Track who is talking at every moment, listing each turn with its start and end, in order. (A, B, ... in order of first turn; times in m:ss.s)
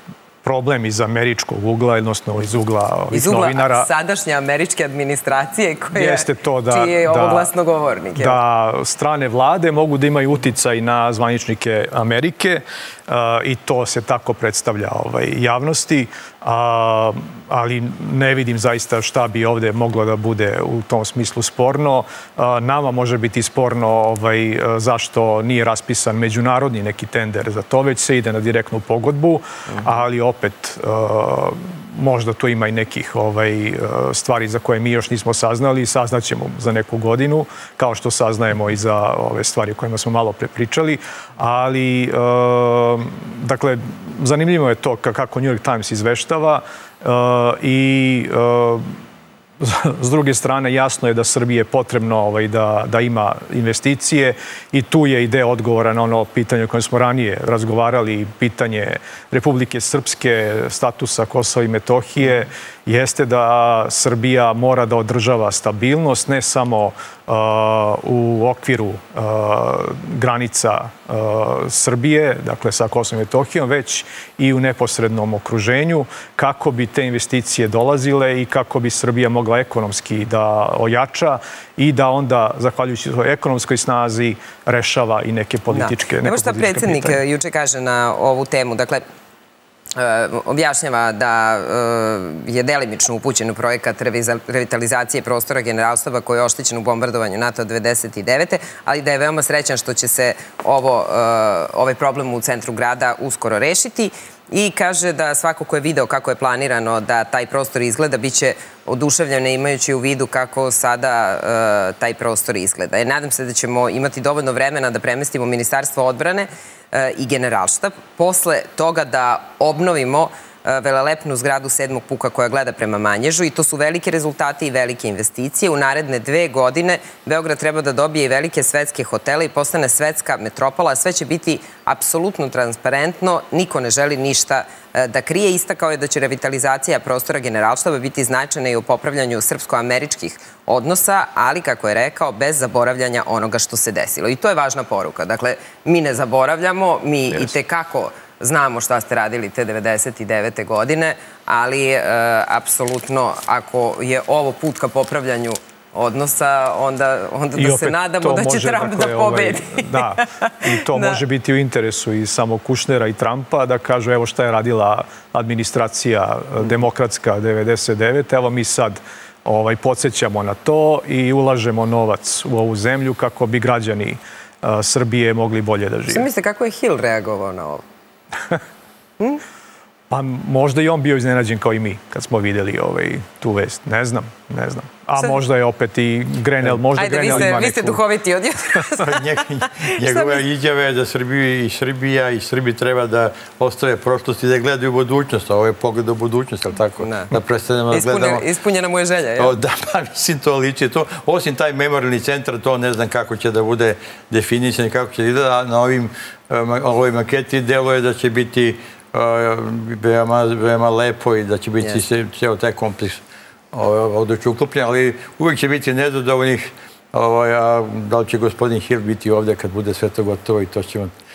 0:00.4-0:03.9 A
0:03.1-0:08.4 B
0:05.9-0:07.5 A
0:08.2-0:49.0 A
0:49.6-1:27.2 A
1:25.7-1:29.0 B
1:29.9-2:41.2 B
2:37.6-2:56.2 A
2:56.1-2:57.8 B
3:00.1-3:08.0 A
3:06.9-3:10.4 B
3:09.0-3:18.4 C
3:17.0-3:17.3 B
3:17.9-3:19.5 B
3:19.4-3:41.1 C